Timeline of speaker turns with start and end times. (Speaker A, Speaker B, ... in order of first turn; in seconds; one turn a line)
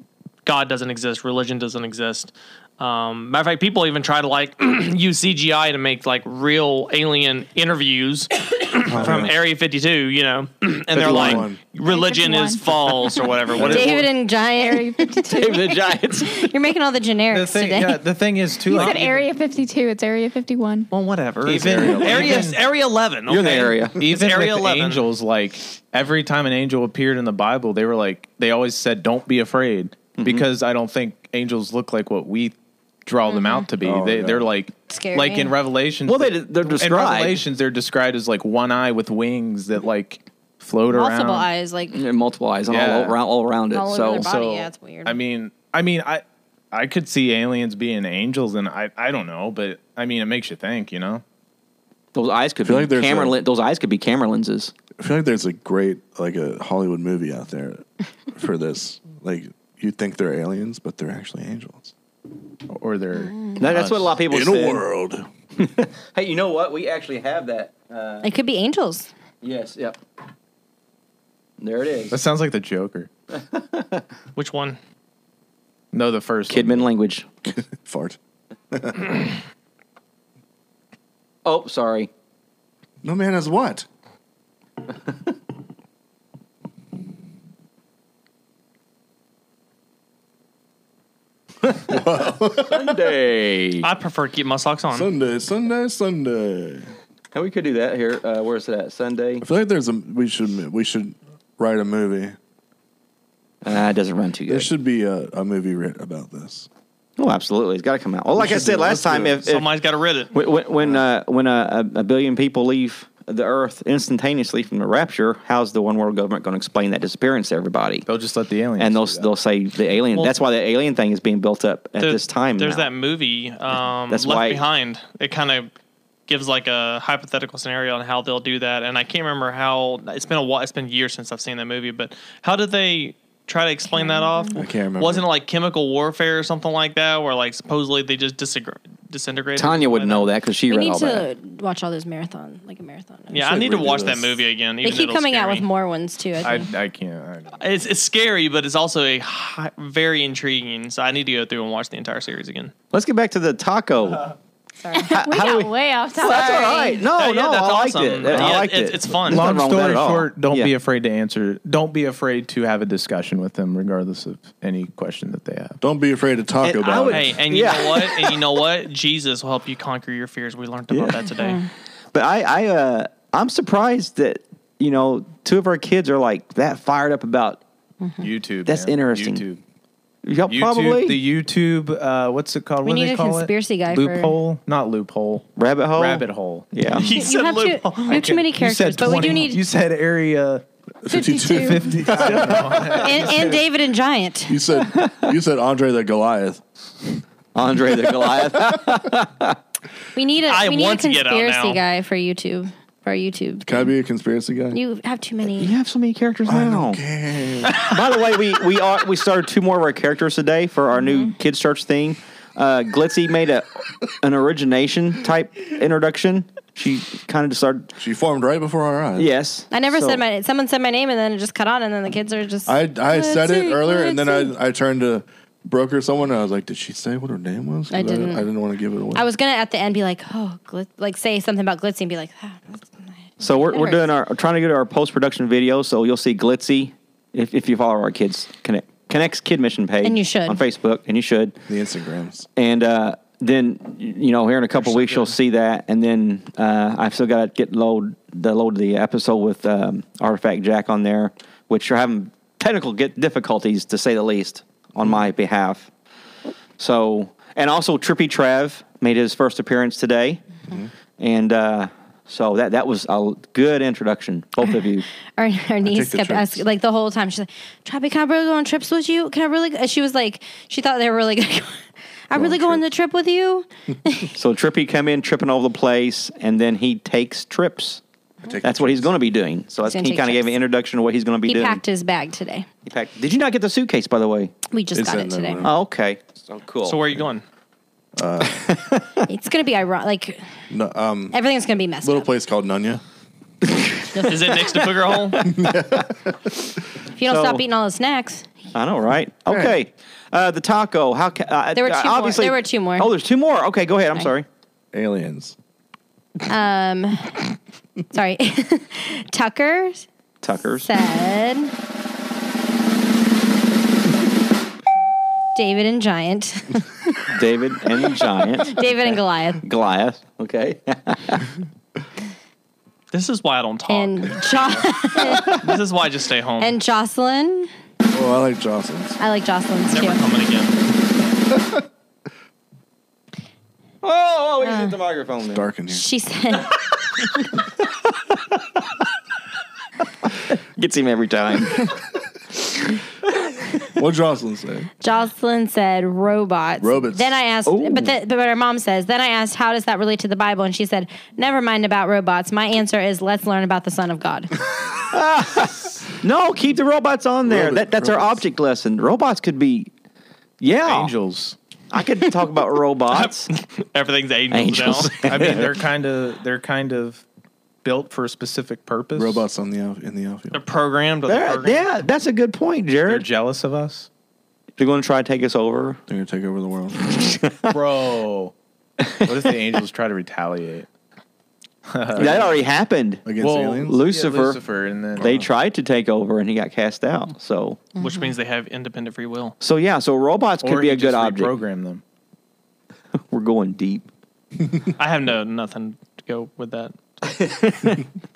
Speaker A: 0.5-14.1
Speaker B: 8.9-9.4
Speaker B: 10.9-11.6
Speaker C: 11.9-12.7
Speaker D: 13.5-14.1
Speaker E: 13.6-18.0
Speaker F: 15.2-16.5
Speaker D: 17.3-19.3
Speaker C: 18.6-20.9
Speaker A: 18.7-19.0
Speaker A: 20.9-25.0
Speaker D: 21.4-22.6
Speaker B: 21.6-22.2
Speaker F: 22.1-22.5
Speaker F: 23.3-24.0
Speaker D: 24.0-32.5
Speaker F: 30.2-30.5
Speaker D: 33.1-41.5
Speaker E: 33.2-33.7
Speaker B: 33.8-34.5
Speaker E: 34.9-35.5
Speaker F: 36.1-37.4
Speaker E: 40.9-42.0
Speaker F: 41.9-44.3
Speaker D: 42.7-43.2
Speaker E: 43.7-45.2
Speaker D: 44.2-51.2
Speaker F: 52.1-54.7
Speaker B: 52.6-53.4
Speaker B: 55.0-61.9
Speaker D: 62.7-64.2
Speaker F: 63.6-64.8
Speaker B: 64.3-65.3
Speaker F: 65.6-68.3
Speaker E: 68.2-69.1
Speaker F: 69.4-70.0
Speaker F: 71.6-72.2
Speaker D: 72.1-73.1
Speaker F: 73.3-74.1
Speaker A: 74.4-74.8
Speaker D: 75.9-76.8
Speaker F: 76.5-77.3
Speaker B: 77.5-78.2
Speaker B: 78.7-79.2
Speaker F: 81.5-82.1
Speaker B: 83.0-83.9
Speaker B: 91.7-93.1
Speaker F: 92.6-93.9
Speaker A: 93.8-95.1
Speaker B: 94.9-96.9
Speaker F: 97.3-99.5
Speaker B: 99.4-102.4
Speaker F: 103.6-104.7
Speaker B: 104.5-106.7
Speaker F: 107.2-109.7
Speaker B: 108.3-109.5
Speaker A: 109.5-110.3
Speaker F: 110.3-118.1
Speaker D: 118.1-119.3
Speaker F: 118.8-122.9
Speaker A: 122.0-125.7
Speaker F: 124.1-124.6
Speaker A: 126.3-140.3
Speaker E: 133.9-134.6
Speaker B: 134.6-135.3
Speaker F: 139.6-141.3
Speaker E: 140.7-143.6
Speaker A: 143.3-145.7
Speaker B: 143.3-144.4
Speaker E: 144.8-146.7
Speaker D: 146.4-147.6
Speaker A: 147.6-152.7
Speaker F: 152.9-154.3
Speaker E: 154.8-155.1
Speaker C: 155.0-157.1
Speaker F: 155.1-160.7
Speaker A: 157.2-159.5
Speaker D: 159.3-165.8
Speaker B: 165.8-167.4
Speaker F: 166.6-168.4
Speaker A: 167.1-171.6
Speaker F: 170.9-171.2
Speaker E: 171.4-171.7
Speaker F: 172.1-177.6
Speaker E: 178.0-178.3
Speaker D: 178.2-179.6
Speaker F: 178.7-179.4
Speaker F: 180.2-181.2
Speaker D: 180.5-187.1
Speaker E: 182.8-184.4
Speaker F: 185.6-187.1
Speaker A: 186.9-188.2
Speaker E: 187.1-189.6
Speaker D: 188.1-190.6
Speaker B: 191.1-193.0
Speaker E: 191.1-191.9
Speaker D: 191.5-193.6
Speaker E: 193.0-194.6
Speaker B: 194.5-196.6
Speaker F: 194.8-195.3
Speaker F: 197.6-199.6
Speaker B: 198.0-198.8
Speaker E: 200.2-203.9
Speaker A: 200.5-201.8
Speaker B: 203.7-204.8
Speaker E: 204.7-205.7
Speaker F: 205.6-207.0
Speaker B: 206.5-207.8
Speaker F: 207.8-217.9
Speaker B: 218.0-219.3
Speaker F: 219.2-220.2
Speaker E: 219.7-224.5
Speaker B: 222.7-229.2
Speaker E: 227.9-228.5
Speaker E: 229.1-234.1
Speaker F: 233.4-241.6
Speaker E: 240.0-240.6
Speaker B: 241.7-242.5
Speaker F: 242.6-255.9
Speaker D: 244.8-245.3
Speaker F: 256.8-260.4
Speaker F: 261.2-265.1
Speaker E: 265.4-274.3
Speaker B: 265.8-266.6
Speaker B: 272.3-272.8
Speaker F: 274.4-278.0
Speaker B: 278.4-279.2
Speaker F: 278.6-281.8
Speaker E: 279.8-280.6
Speaker E: 281.5-282.7
Speaker F: 282.9-284.5
Speaker E: 284.7-285.6
Speaker B: 284.9-285.8
Speaker F: 285.6-287.0
Speaker A: 286.9-287.4
Speaker B: 288.2-288.7
Speaker F: 288.5-289.1
Speaker E: 289.3-290.4
Speaker B: 290.7-291.4
Speaker E: 291.3-292.3
Speaker B: 292.0-293.0
Speaker F: 293.8-294.3
Speaker A: 294.3-295.4
Speaker B: 295.4-296.3
Speaker E: 297.1-298.5
Speaker F: 297.2-297.6
Speaker F: 298.7-304.5
Speaker B: 299.5-299.8
Speaker E: 301.8-303.1
Speaker B: 304.9-305.6
Speaker E: 306.5-307.4
Speaker E: 308.1-310.1
Speaker F: 310.4-310.9
Speaker E: 310.8-311.7
Speaker E: 315.6-317.2
Speaker F: 317.3-321.5
Speaker E: 318.6-319.6
Speaker A: 323.1-326.8
Speaker E: 323.9-325.5
Speaker E: 326.6-327.7
Speaker B: 328.1-329.2
Speaker E: 329.2-330.2
Speaker A: 329.9-330.8
Speaker F: 334.0-335.7
Speaker E: 334.6-334.9
Speaker B: 335.5-336.1
Speaker E: 335.9-336.7
Speaker F: 340.5-342.0
Speaker B: 344.0-344.9
Speaker E: 345.0-354.5
Speaker B: 346.8-347.4
Speaker F: 347.7-348.1
Speaker F: 355.1-359.9
Speaker B: 357.4-358.4
Speaker F: 360.6-361.1
Speaker D: 360.8-361.6
Speaker F: 361.9-363.5
Speaker A: 363.1-365.2
Speaker F: 364.5-365.8
Speaker D: 365.2-367.2
Speaker D: 367.8-369.4
Speaker B: 369.2-370.6
Speaker A: 370.5-371.9
Speaker F: 371.3-373.3
Speaker D: 373.1-374.1
Speaker F: 374.8-376.0
Speaker B: 376.1-377.0
Speaker F: 377.1-377.7
Speaker D: 377.7-378.5
Speaker F: 379.0-379.4
Speaker D: 379.2-380.9
Speaker D: 381.9-382.7
Speaker F: 382.2-383.3
Speaker B: 383.2-384.0
Speaker D: 383.4-385.4
Speaker F: 383.8-384.6
Speaker F: 385.2-387.9
Speaker B: 385.2-385.5
Speaker E: 388.0-388.3
Speaker A: 388.0-389.6
Speaker F: 389.6-391.6
Speaker D: 390.6-392.0
Speaker F: 393.2-394.1
Speaker A: 395.0-396.9
Speaker F: 397.2-398.1